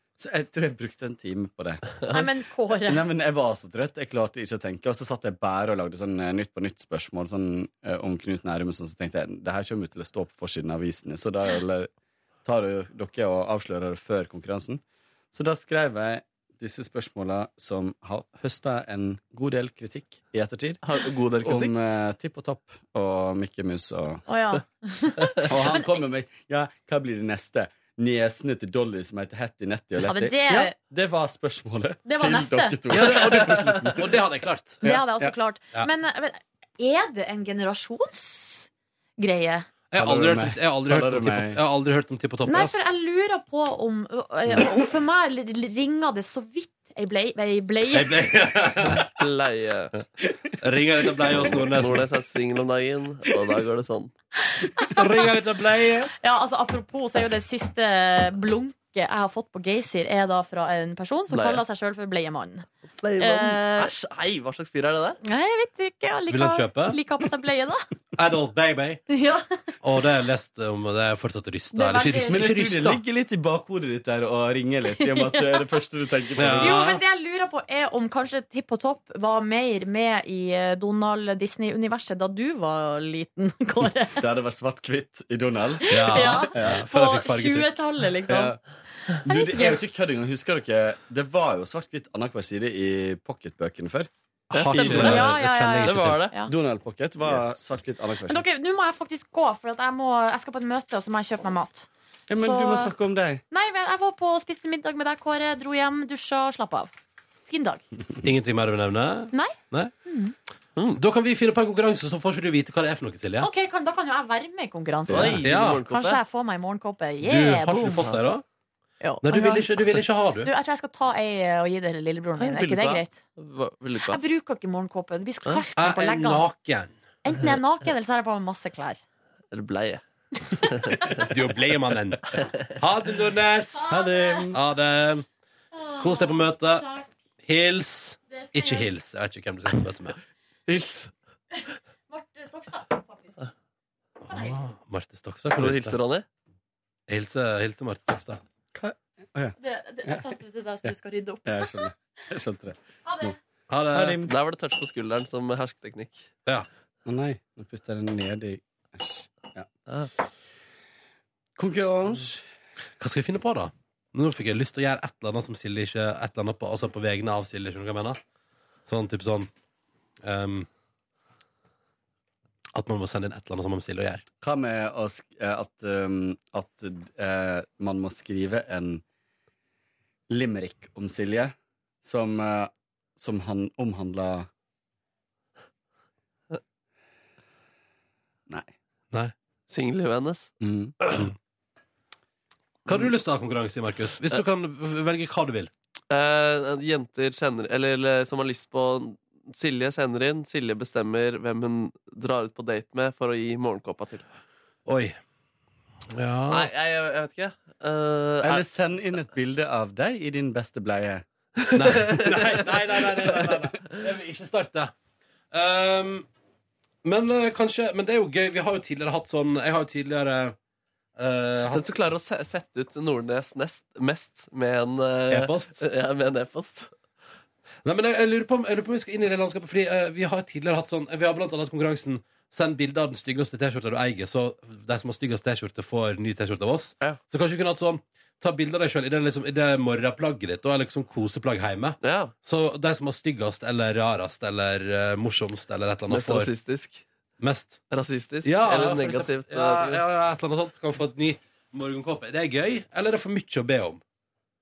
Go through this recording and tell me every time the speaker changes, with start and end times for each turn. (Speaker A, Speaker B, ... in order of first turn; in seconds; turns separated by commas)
Speaker A: 0.2-2.0, Speaker B: 2.1-3.1, Speaker A: 2.9-11.9, Speaker A: 12.4-20.8, Speaker C: 20.8-21.8, Speaker A: 21.4-24.2, Speaker B: 24.3-26.0, Speaker A: 25.5-34.1, Speaker B: 30.0-30.8, Speaker B: 32.1-33.1, Speaker D: 32.9-34.8, Speaker A: 34.8-35.4, Speaker B: 34.8-39.7, Speaker D: 39.9-42.8, Speaker A: 40.0-41.6, Speaker B: 42.5-48.2, Speaker D: 47.9-49.1, Speaker C: 49.0-49.9, Speaker D: 50.6-52.1, Speaker C: 51.8-54.1, Speaker B: 54.5-55.3, Speaker D: 54.9-56.1, Speaker B: 56.2-62.7, Speaker C: 61.3-61.6, Speaker C: 63.0-65.2, Speaker B: 63.2-63.9, Speaker B: 65.2-67.8, Speaker D: 66.3-67.0, Speaker D: 68.2-69.0, Speaker B: 69.1-69.7, Speaker D: 69.8-73.0, Speaker B: 71.7-72.4, Speaker A: 72.3-76.8, Speaker B: 75.0-75.6, Speaker D: 76.4-77.0, Speaker B: 76.6-84.2, Speaker A: 84.2-86.8, Speaker B: 85.8-88.6, Speaker D: 85.9-87.8, Speaker A: 88.3-88.6, Speaker B: 89.1-89.8, Speaker A: 89.3-94.1, Speaker D: 94.5-96.3, Speaker C: 94.5-95.3, Speaker B: 94.8-96.5, Speaker A: 94.9-95.2, Speaker C: 95.8-96.3, Speaker A: 96.5-98.5, Speaker B: 98.3-102.9, Speaker A: 102.3-103.4, Speaker B: 103.5-106.9, Speaker B: 107.5-107.8, Speaker D: 108.2-109.9, Speaker B: 109.3-110.3, Speaker D: 110.9-113.5, Speaker B: 113.4-118.1, Speaker C: 115.1-116.2, Speaker A: 115.1-115.4, Speaker D: 115.4-115.8, Speaker D: 117.2-118.5, Speaker B: 119.0-119.7, Speaker D: 119.2-120.5, Speaker B: 120.4-123.2, Speaker C: 122.4-124.2, Speaker B: 124.0-126.5, Speaker D: 125.8-126.9, Speaker B: 127.2-129.0, Speaker C: 129.5-130.0, Speaker B: 130.5-131.2, Speaker C: 130.6-131.3, Speaker D: 131.2-135.3, Speaker C: 132.3-132.7, Speaker B: 133.8-134.5, Speaker A: 134.1-134.6, Speaker B: 135.8-137.1, Speaker D: 136.0-136.9, Speaker D: 137.4-140.2, Speaker B: 138.3-138.9, Speaker A: 140.7-141.1, Speaker B: 141.5-143.5, Speaker D: 144.2-146.0, Speaker B: 144.3-144.6, Speaker C: 145.6-146.3, Speaker D: 147.1-148.4, Speaker A: 148.7-150.3, Speaker B: 149.6-151.9, Speaker A: 150.8-153.3, Speaker B: 153.1-153.3, Speaker D: 153.7-154.3, Speaker A: 153.9-154.3, Speaker C: 154.2-156.3, Speaker A: 157.1-159.7, Speaker A: 161.6-162.5, Speaker D: 163.0-168.2, Speaker D: 168.9-169.5, Speaker D: 170.2-170.7, Speaker D: 172.8-174.2, Speaker A: 174.4-179.0, Speaker A: 180.3-184.5, Speaker C: 189.7-190.5, Speaker A: 190.6-191.0, Speaker D: 191.0-191.3, Speaker D: 192.9-195.7, Speaker C: 196.1-204.3, Speaker D: 204.9-205.2, Speaker D: 206.1-206.7, Speaker C: 206.5-208.7, Speaker A: 208.4-211.2, Speaker C: 211.6-212.6, Speaker D: 211.8-214.9, Speaker D: 215.5-216.3, Speaker D: 217.0-220.6, Speaker D: 221.2-222.0, Speaker C: 221.7-226.9, Speaker D: 225.3-225.8, Speaker D: 227.8-246.5, Speaker C: 242.0-242.3, Speaker C: 246.1-247.0, Speaker D: 247.4-247.8, Speaker C: 247.9-250.0, Speaker D: 248.4-254.0